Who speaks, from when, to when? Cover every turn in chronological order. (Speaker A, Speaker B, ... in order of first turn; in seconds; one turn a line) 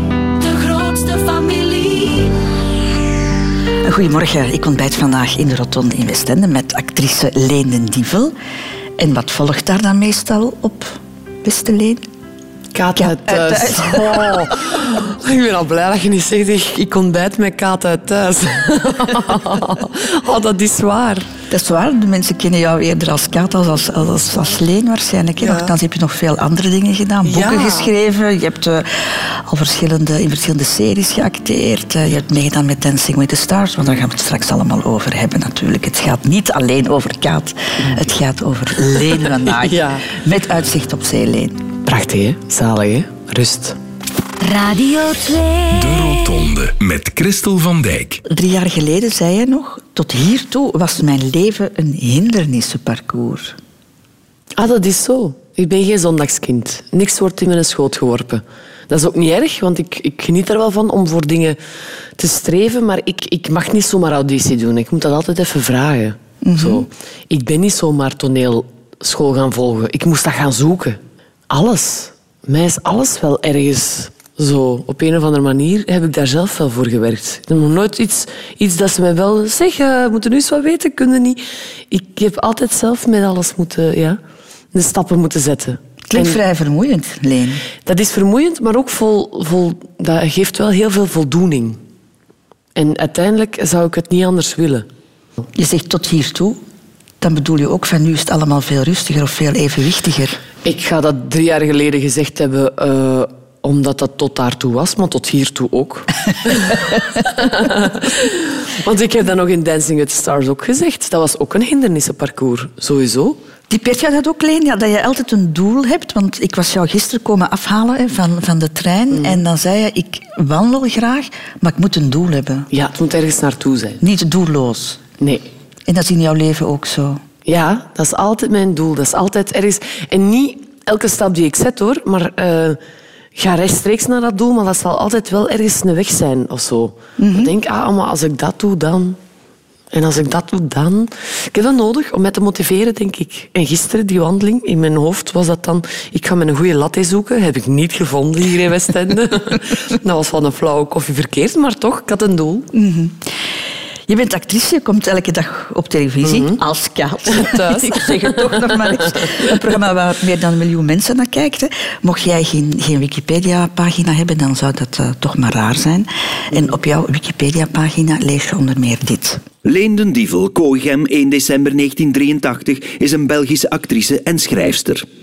Speaker A: 0.4-2.4
Speaker B: 3.8-8.3
Speaker B: 9.0-12.1
Speaker C: 12.7-21.3
Speaker B: 12.9-14.5
Speaker B: 21.5-41.6
Speaker C: 25.4-25.7
Speaker C: 27.2-27.9
Speaker C: 39.4-40.1
Speaker C: 41.9-43.8
Speaker A: 44.4-46.1
Speaker D: 45.7-48.2
Speaker B: 48.2-53.6
Speaker C: 54.6-61.6
Speaker C: 62.2-71.0
Speaker B: 66.4-66.9
Speaker C: 71.5-84.2
Speaker C: 84.7-86.4
Speaker B: 86.1-87.6
Speaker C: 87.8-91.8
Speaker C: 92.8-94.9
Speaker B: 95.5-96.6
Speaker B: 97.2-100.4
Speaker C: 100.6-113.4
Speaker B: 113.7-122.7
Speaker C: 119.1-119.4
Speaker C: 122.7-124.0
Speaker B: 124.0-125.0
Speaker C: 125.2-125.5
Speaker B: 125.9-127.2
Speaker C: 127.5-132.8
Speaker C: 133.4-139.2
Speaker B: 137.2-137.5
Speaker C: 139.9-152.7
Speaker B: 152.7-153.3
Speaker B: 154.1-169.4
Speaker C: 156.2-156.6
Speaker C: 157.3-159.5
Speaker E: 169.7-175.1